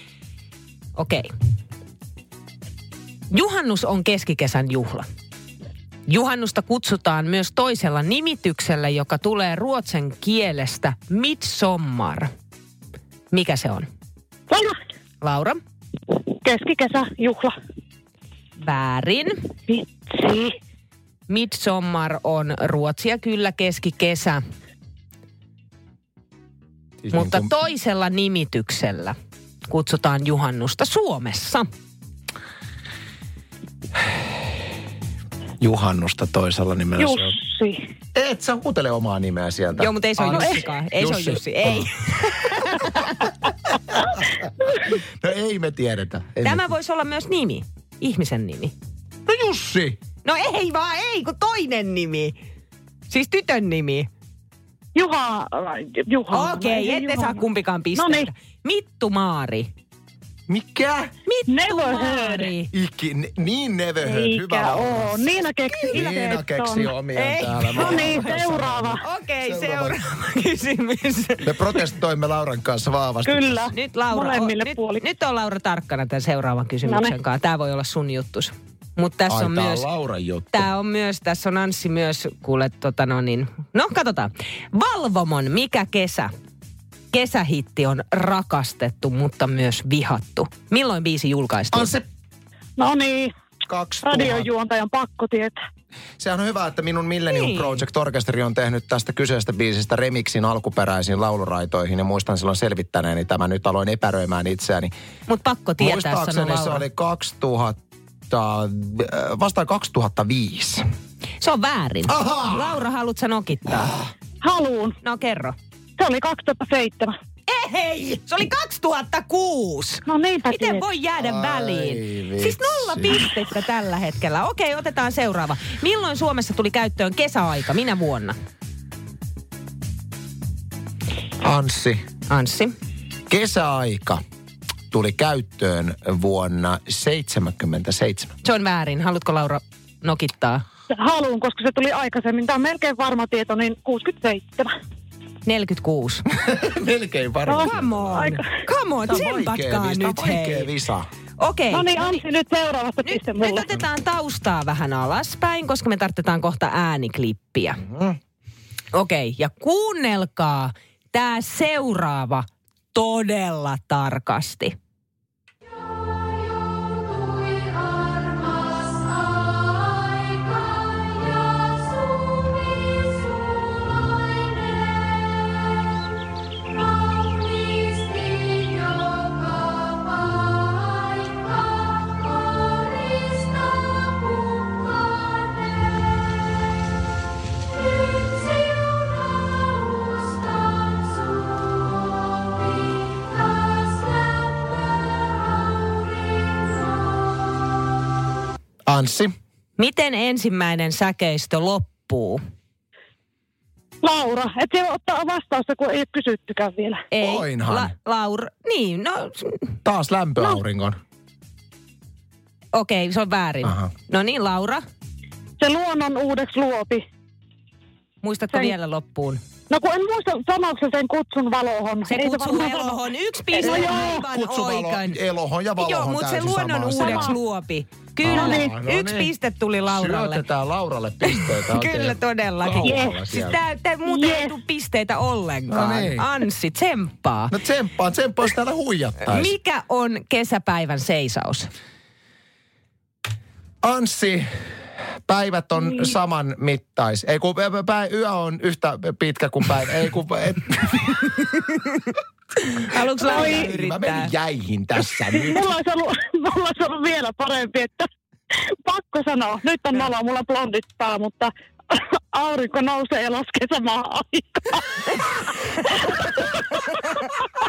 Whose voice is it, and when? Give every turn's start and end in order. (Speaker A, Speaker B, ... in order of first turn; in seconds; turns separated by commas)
Speaker A: 0.9-1.3, Speaker A: 3.3-5.1, Speaker A: 6.1-12.3, Speaker A: 13.3-13.9, Speaker B: 14.5-14.8, Speaker A: 15.2-15.6, Speaker B: 16.4-17.5, Speaker A: 18.6-19.4, Speaker B: 19.7-20.6, Speaker A: 21.3-24.4, Speaker C: 27.0-27.5, Speaker A: 27.1-29.1, Speaker A: 29.7-31.7, Speaker C: 35.6-37.3, Speaker B: 37.0-37.8, Speaker C: 38.1-43.1, Speaker A: 39.8-43.3, Speaker C: 43.9-46.7, Speaker A: 46.4-48.7, Speaker C: 49.2-50.0, Speaker A: 50.2-52.4, Speaker A: 53.1-54.1, Speaker B: 54.9-57.4, Speaker A: 56.3-59.7, Speaker B: 58.0-58.3, Speaker C: 60.5-61.1, Speaker A: 61.2-62.7, Speaker B: 61.5-62.5, Speaker C: 62.7-65.3, Speaker B: 64.0-66.9, Speaker C: 65.8-70.0, Speaker A: 67.1-71.5, Speaker B: 67.7-69.0, Speaker C: 71.4-73.7, Speaker B: 73.2-75.0, Speaker A: 73.7-79.8, Speaker B: 76.8-77.1, Speaker C: 79.3-80.7, Speaker A: 80.5-86.3, Speaker A: 87.1-91.9, Speaker C: 91.7-92.0, Speaker B: 92.8-93.3, Speaker C: 93.7-94.5, Speaker B: 94.0-95.5, Speaker C: 96.2-104.9, Speaker A: 97.3-97.8, Speaker A: 105.3-106.8, Speaker C: 105.8-110.8, Speaker A: 111.4-114.0, Speaker C: 112.1-112.8, Speaker B: 114.4-115.0, Speaker A: 115.0-115.5, Speaker B: 116.0-117.1, Speaker A: 117.5-128.3, Speaker B: 120.1-120.8, Speaker C: 121.2-123.3, Speaker C: 131.4-132.0, Speaker A: 132.3-132.8, Speaker C: 133.3-134.2, Speaker C: 134.9-138.3, Speaker A: 138.4-140.6, Speaker B: 140.9-144.7, Speaker A: 145.4-146.3, Speaker C: 146.3-148.4, Speaker B: 147.5-148.4, Speaker A: 147.6-150.7, Speaker C: 149.0-151.1, Speaker A: 151.4-152.2, Speaker B: 151.7-153.7, Speaker A: 153.0-157.8, Speaker C: 157.8-158.2, Speaker A: 158.9-164.8, Speaker A: 178.0-179.3, Speaker C: 198.9-199.3, Speaker A: 199.8-202.4, Speaker B: 204.0-207.1, Speaker A: 207.1-209.8, Speaker C: 207.2-207.9, Speaker C: 209.8-211.0, Speaker A: 212.7-214.8, Speaker C: 213.6-213.9, Speaker B: 215.6-217.0, Speaker A: 218.2-219.4, Speaker B: 219.7-223.0, Speaker A: 222.1-225.2, Speaker B: 223.5-224.2, Speaker C: 223.6-227.4, Speaker A: 225.8-230.4, Speaker B: 226.9-227.3, Speaker C: 228.2-229.3, Speaker B: 228.3-228.7, Speaker C: 229.9-233.6, Speaker A: 231.2-237.5, Speaker B: 232.8-233.2, Speaker B: 234.0-234.5, Speaker C: 235.7-236.3, Speaker C: 237.5-239.5, Speaker A: 239.3-241.7, Speaker C: 243.8-251.5, Speaker A: 252.8-254.3, Speaker C: 253.2-255.7, Speaker B: 253.2-253.7, Speaker B: 255.3-267.3, Speaker A: 265.7-266.1